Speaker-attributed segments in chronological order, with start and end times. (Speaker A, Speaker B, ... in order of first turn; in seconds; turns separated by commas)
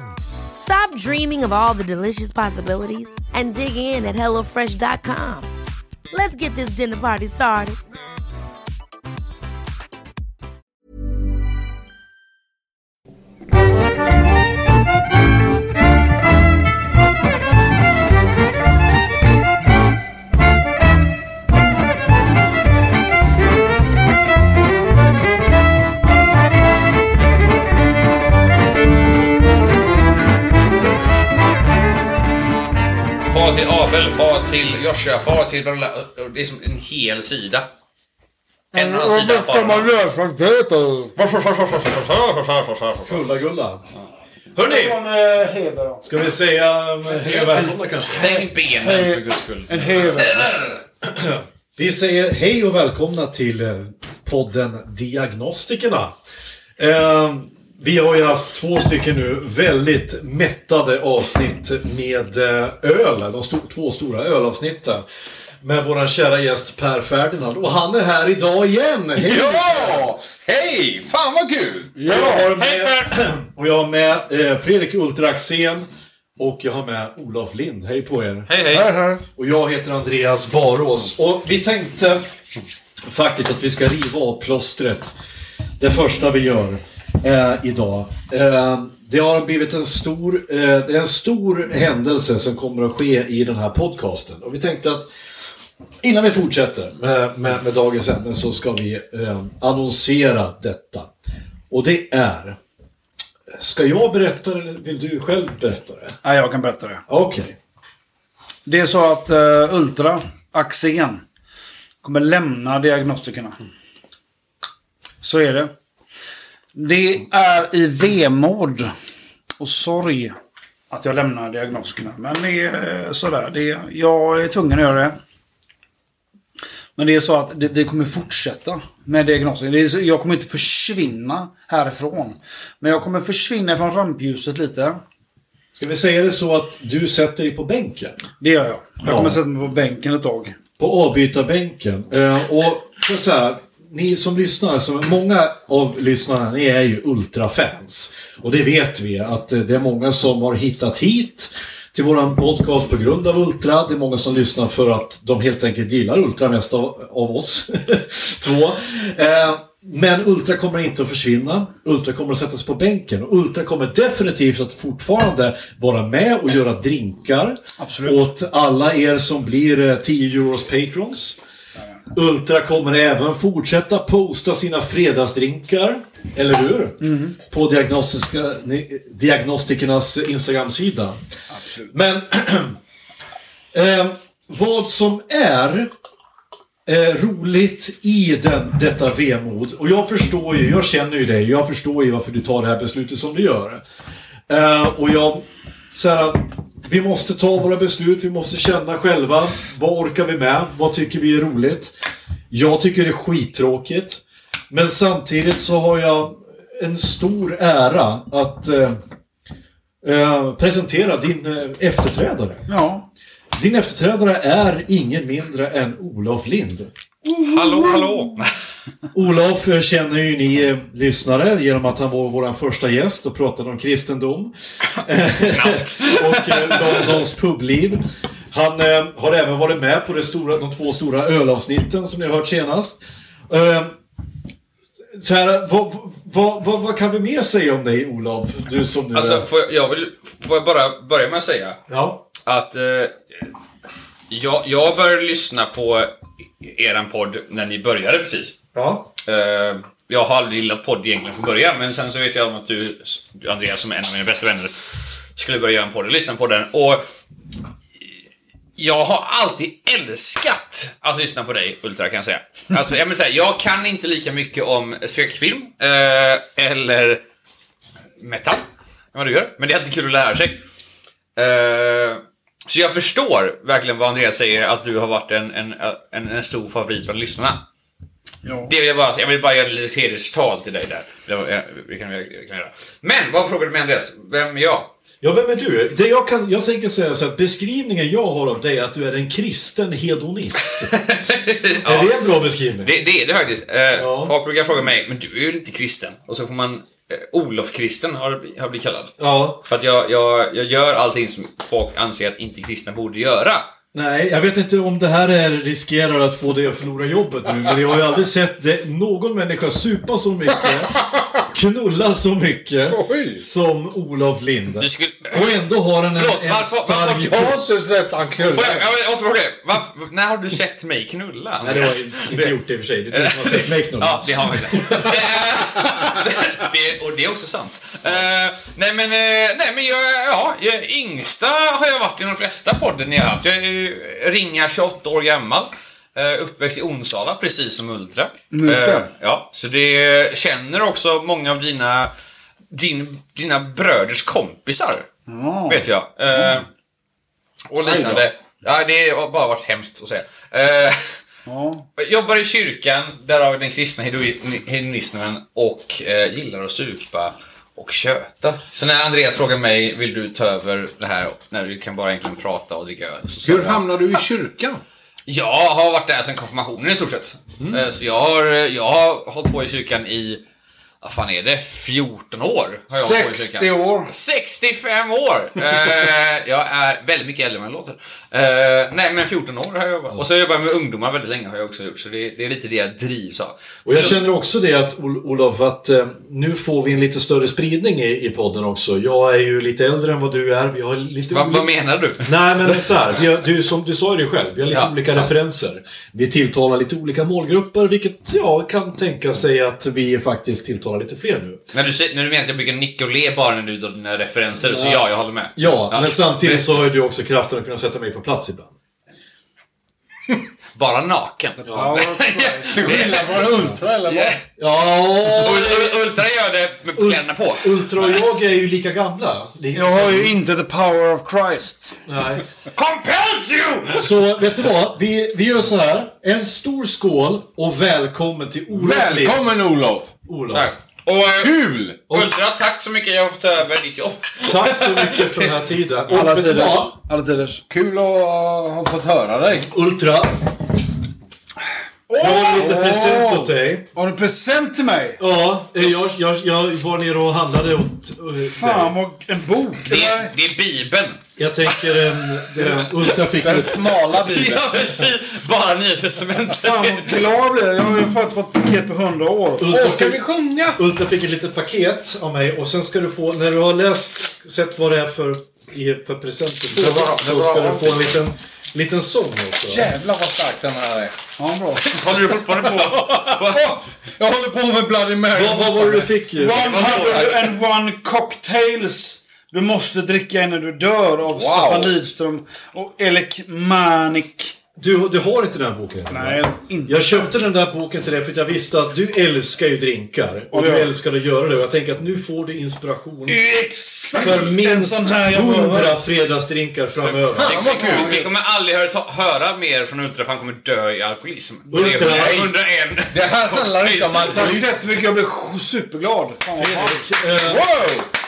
Speaker A: 0.6-5.5, Speaker A: 6.1-7.8, Speaker B: 33.3-37.7, Speaker C: 38.7-41.1, Speaker B: 38.7-39.9, Speaker B: 41.2-43.3, Speaker D: 43.0-43.8, Speaker D: 44.5-45.0, Speaker C: 44.6-46.1, Speaker D: 46.0-48.4, Speaker B: 48.1-50.5, Speaker C: 48.7-50.6, Speaker D: 51.0-56.2, Speaker D: 56.8-65.0, Speaker D: 65.6-70.1, Speaker E: 69.2-72.0, Speaker C: 72.0-72.6, Speaker D: 72.0-78.5, Speaker B: 72.2-73.1, Speaker B: 78.5-78.9, Speaker C: 78.7-79.2, Speaker D: 79.4-82.2, Speaker D: 83.0-85.2, Speaker D: 85.8-95.1, Speaker D: 96.0-101.1, Speaker D: 101.7-102.6, Speaker D: 103.5-106.2, Speaker C: 106.2-107.0, Speaker D: 107.1-107.5, Speaker C: 108.7-111.2, Speaker C: 112.0-113.6, Speaker C: 115.2-115.7, Speaker C: 116.8-118.9, Speaker C: 119.6-120.4, Speaker C: 120.9-125.2, Speaker C: 127.0-135.0, Speaker D: 135.7-138.2, Speaker C: 138.4-140.6, Speaker D: 139.0-139.4, Speaker D: 140.8-171.4, Speaker C: 167.8-168.2, Speaker D: 172.1-181.2, Speaker C: 177.0-177.4, Speaker C: 181.6-181.9, Speaker D: 181.9-182.8, Speaker D: 183.7-185.9, Speaker D: 186.9-193.8, Speaker D: 194.5-201.9, Speaker D: 202.5-209.0, Speaker D: 210.0-212.7, Speaker C: 212.7-213.1, Speaker D: 213.5-216.9, Speaker C: 217.3-218.2, Speaker B: 217.4-218.5, Speaker D: 219.1-234.0, Speaker B: 225.4-227.2, Speaker D: 235.1-239.5, Speaker B: 239.1-241.8, Speaker D: 241.9-242.2, Speaker B: 242.4-243.2, Speaker B: 244.3-248.6, Speaker D: 248.8-249.1, Speaker B: 249.2-254.7, Speaker B: 255.4-257.0, Speaker B: 258.8-267.2, Speaker B: 268.2-270.6, Speaker B: 271.4-277.6, Speaker C: 278.4-278.7, Speaker B: 278.7-284.9, Speaker D: 285.2-290.9, Speaker B: 290.7-292.1, Speaker D: 291.8-292.9, Speaker B: 292.8-303.7, Speaker D: 294.0-294.4, Speaker D: 299.2-299.6, Speaker D: 303.9-317.7, Speaker E: 310.9-311.3, Speaker E: 312.9-313.4, Speaker B: 314.8-315.6, Speaker B: 316.1-317.5, Speaker E: 317.3-318.9, Speaker B: 318.4-322.6, Speaker D: 321.6-325.1, Speaker B: 323.1-342.1, Speaker C: 338.5-339.1, Speaker B: 342.7-345.1, Speaker C: 345.3-346.6, Speaker B: 345.7-346.7, Speaker B: 347.7-351.2, Speaker E: 347.8-348.3, Speaker C: 351.5-351.9, Speaker B: 352.0-364.2, Speaker E: 363.4-364.8, Speaker B: 365.3-370.4, Speaker B: 371.0-384.2, Speaker C: 372.9-374.1, Speaker D: 383.9-391.7, Speaker B: 391.3-392.8, Speaker D: 392.2-401.6, Speaker B: 394.7-395.4, Speaker B: 401.7-406.8, Speaker D: 404.6-408.7, Speaker B: 410.8-414.4, Speaker D: 411.7-412.1, Speaker C: 411.7-412.9, Speaker E: 412.7-414.4, Speaker D: 414.6-416.1, Speaker B: 415.2-418.2, Speaker D: 416.9-420.3, Speaker C: 419.7-422.0, Speaker D: 422.1-422.4, Speaker B: 422.8-424.1, Speaker D: 424.0-429.5, Speaker E: 428.7-430.1, Speaker D: 430.3-430.7, Speaker B: 430.5-435.5, Speaker E: 431.3-432.0, Speaker D: 434.4-436.9, Speaker C: 436.1-437.6, Speaker E: 437.7-439.7, Speaker D: 439.7-440.4, Speaker C: 442.1-445.2, Speaker D: 442.2-443.9, Speaker D: 445.2-448.9, Speaker C: 448.6-450.3, Speaker B: 449.9-457.2, Speaker D: 451.4-453.9, Speaker E: 453.4-455.1, Speaker C: 456.5-459.7, Speaker D: 459.6-460.2, Speaker E: 459.6-460.8, Speaker D: 460.8-469.9, Speaker E: 466.8-468.0, Speaker E: 469.7-471.2, Speaker C: 471.4-472.1, Speaker B: 471.9-473.8, Speaker E: 472.5-476.1, Speaker D: 475.3-477.2, Speaker C: 476.3-484.6, Speaker B: 476.5-477.6, Speaker E: 481.3-482.0, Speaker D: 484.8-493.4, Speaker C: 486.1-487.2, Speaker C: 490.5-490.9, Speaker C: 493.3-496.0, Speaker D: 494.2-497.6, Speaker B: 497.0-504.6, Speaker E: 497.1-498.2, Speaker C: 497.7-498.3, Speaker D: 501.7-502.5, Speaker E: 503.1-504.8, Speaker C: 504.2-507.1, Speaker D: 506.6-507.7, Speaker E: 507.6-508.1